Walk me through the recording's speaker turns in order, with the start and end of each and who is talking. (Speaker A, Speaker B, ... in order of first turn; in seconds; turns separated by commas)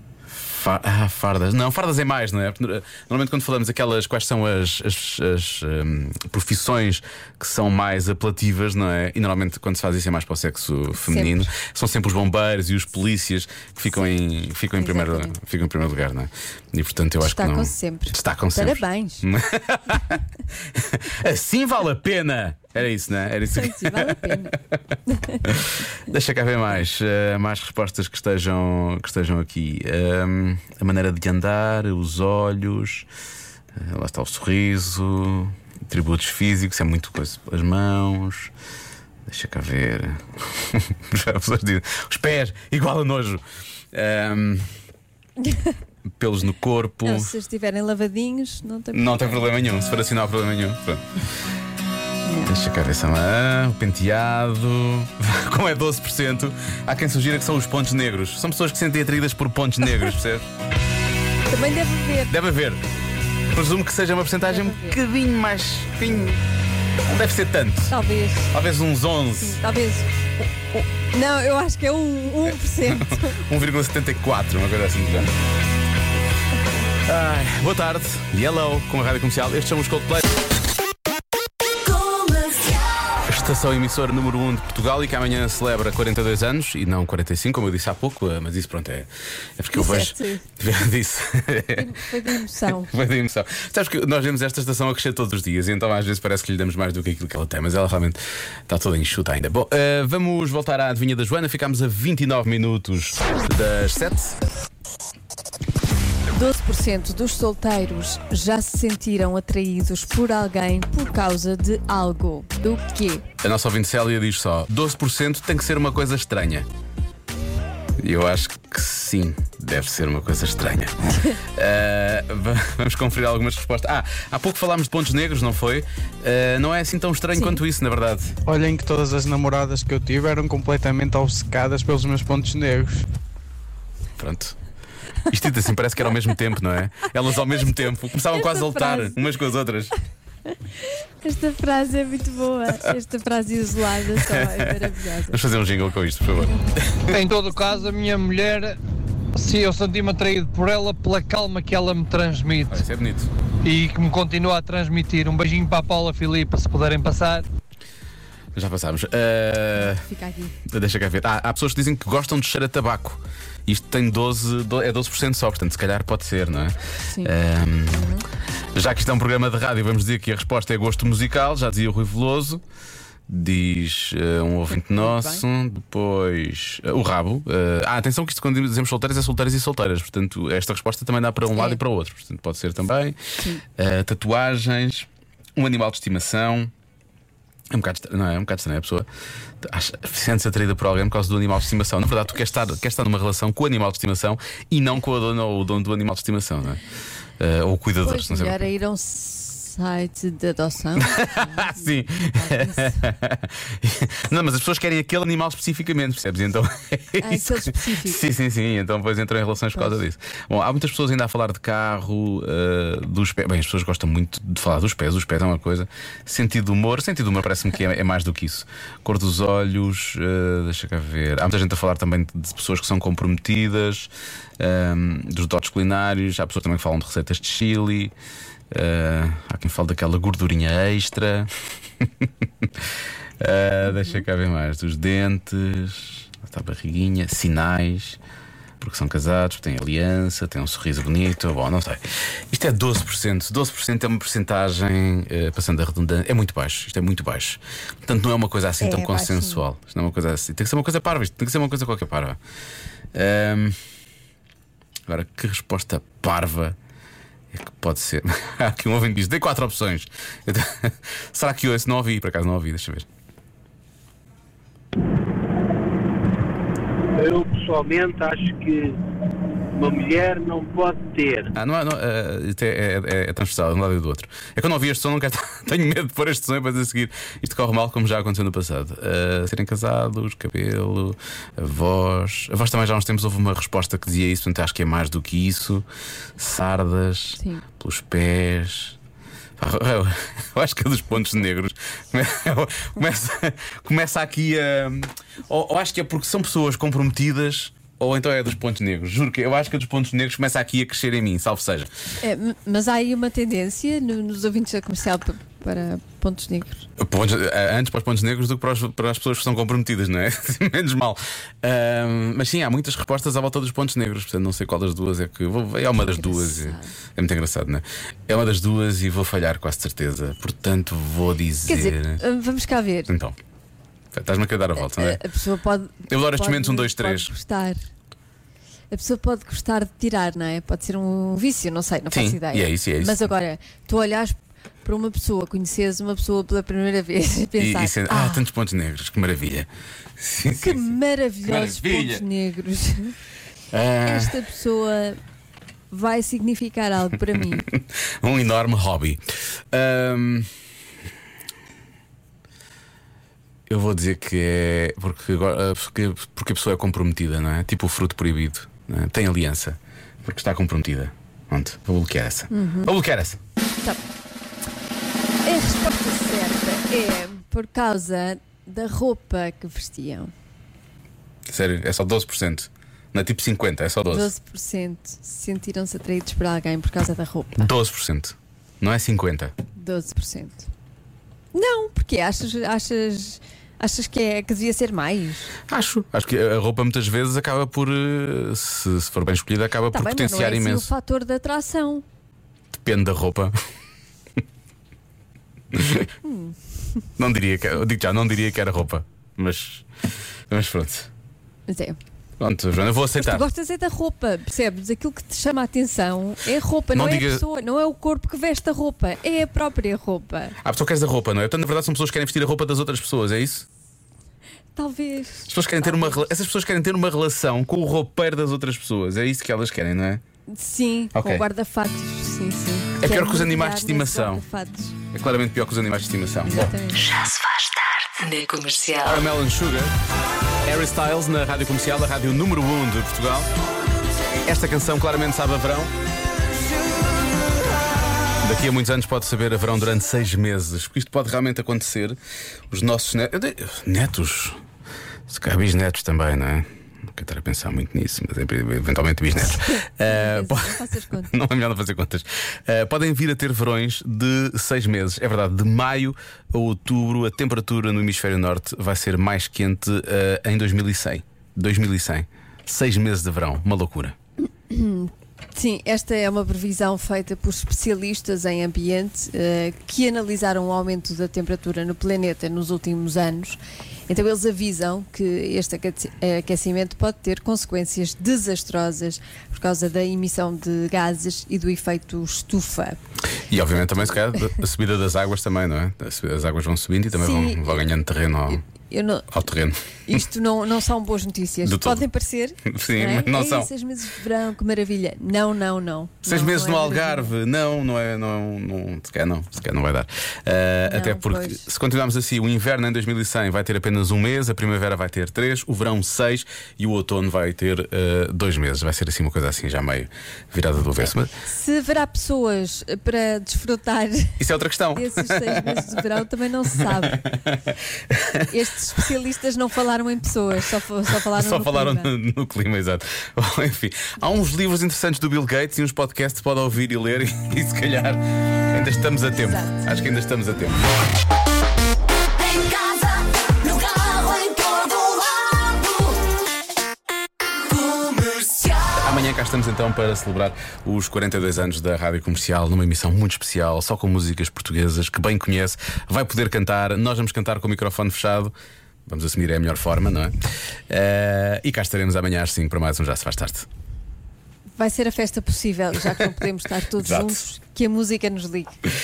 Speaker A: 0.3-24.5, Speaker B: 11.0-11.5, Speaker B: 14.8-15.4, Speaker B: 17.2-19.2, Speaker B: 23.5-24.6, Speaker B: 25.1-25.4, Speaker A: 25.4-33.1, Speaker A: 33.8-38.5, Speaker A: 39.3-44.7, Speaker B: 45.4-45.8, Speaker A: 46.2-47.3, Speaker B: 47.0-49.2, Speaker A: 48.9-51.2, Speaker B: 52.2-52.5, Speaker A: 52.5-60.5, Speaker B: 61.5-62.3, Speaker A: 62.3-62.8, Speaker A: 63.5-66.4, Speaker B: 64.5-65.0, Speaker A: 67.1-68.0, Speaker B: 67.9-68.5, Speaker A: 68.5-69.6, Speaker B: 69.4-73.4, Speaker A: 72.9-75.3, Speaker A: 77.0-80.3, Speaker C: 81.7-83.2, Speaker A: 83.2-91.9, Speaker B: 89.7-90.5, Speaker B: 91.8-92.9, Speaker A: 92.8-104.4, Speaker B: 106.3-113.2, Speaker A: 113.4-116.7, Speaker A: 118.0-128.4, Speaker B: 127.3-127.6, Speaker D: 128.5-133.1, Speaker A: 134.2-134.6, Speaker A: 135.3-139.9, Speaker B: 138.3-139.2, Speaker B: 140.5-145.4, Speaker A: 144.1-147.2, Speaker E: 147.1-148.8, Speaker E: 149.3-152.8, Speaker A: 152.7-153.3, Speaker E: 153.6-157.4, Speaker A: 158.6-160.1, Speaker B: 159.8-160.6, Speaker A: 160.6-168.1, Speaker B: 167.9-168.2, Speaker A: 168.8-172.6, Speaker A: 173.3-186.7, Speaker B: 174.7-175.4, Speaker B: 181.5-181.8, Speaker A: 187.7-189.1, Speaker A: 189.6-196.8, Speaker A: 197.4-198.6, Speaker B: 198.0-203.0, Speaker A: 201.0-228.1, Speaker B: 207.2-208.2, Speaker A: 228.7-231.5, Speaker A: 232.0-232.7, Speaker A: 233.4-238.2, Speaker B: 233.9-234.2, Speaker A: 238.8-252.4, Speaker B: 248.8-249.6, Speaker A: 253.1-253.8, Speaker A: 255.1-256.8, Speaker A: 257.5-263.1, Speaker F: 267.2-269.0, Speaker F: 269.7-271.5, Speaker A: 271.5-285.8, Speaker A: 286.4-289.0, Speaker B: 287.4-287.6, Speaker A: 289.6-301.9, Speaker B: 302.2-306.9, Speaker A: 307.0-322.2, Speaker B: 316.0-316.9, Speaker B: 321.7-323.1, Speaker A: 323.1-323.4, Speaker A: 324.1-325.2, Speaker B: 324.8-327.9, Speaker A: 326.1-327.3, Speaker B: 328.9-338.4, Speaker A: 332.1-333.3, Speaker A: 337.6-342.2, Speaker B: 340.6-343.1, Speaker A: 343.7-344.4, Speaker B: 344.0-345.2, Speaker B: 345.9-347.6, Speaker A: 347.6-350.5, Speaker A: 353.7-363.4, Speaker B: 362.5-362.9, Speaker B: 365.4-370.3, Speaker A: 371.5-374.3, Speaker B: 374.1-377.7, Speaker A: 377.6-379.5, Speaker B: 379.8-380.7, Speaker B: 381.5-385.5, Speaker A: 385.7-390.9, Speaker B: 389.9-392.1, Speaker A: 392.7-393.6, Speaker A: 395.7-396.1, Speaker B: 396.2-397.0, Speaker A: 397.2-399.9, Speaker A: 400.5-401.1, Speaker B: 401.7-402.0, Speaker A: 402.4-403.5, Speaker B: 403.2-410.6, Speaker A: 406.9-407.4, Speaker A: 410.6-413.7, Speaker B: 414.8-416.3, Speaker A: 415.5-420.2, Speaker B: 420.5-425.0, Speaker A: 421.1-421.4, Speaker A: 423.0-424.4, Speaker A: 425.1-426.7, Speaker B: 426.4-427.1, Speaker C: 426.9-429.2, Speaker A: 429.0-429.9, Speaker A: 430.7-433.5, Speaker A: 434.4-435.9, Speaker A: 438.4-442.2, Speaker A: 442.7-444.6, Speaker A: 445.3-464.1, Speaker B: 449.4-451.3, Speaker B: 464.7-483.0, Speaker A: 483.3-488.6, Speaker B: 487.1-487.9, Speaker B: 488.5-489.3, Speaker A: 489.3-490.2, Speaker B: 490.1-497.4, Speaker A: 491.6-492.0, Speaker A: 492.6-493.7, Speaker A: 496.3-511.3, Speaker B: 500.9-501.6, Speaker B: 511.4-517.2, Speaker A: 514.4-516.0, Speaker A: 517.0-518.5, Speaker B: 518.5-522.1, Speaker A: 521.2-530.8, Speaker B: 529.4-529.8, Speaker C: 532.4-536.3, Speaker C: 537.7-539.0, Speaker A: 539.0-548.5, Speaker A: 549.1-550.3, Speaker A: 550.9-553.7, Speaker B: 554.8-558.8, Speaker A: 557.0-557.4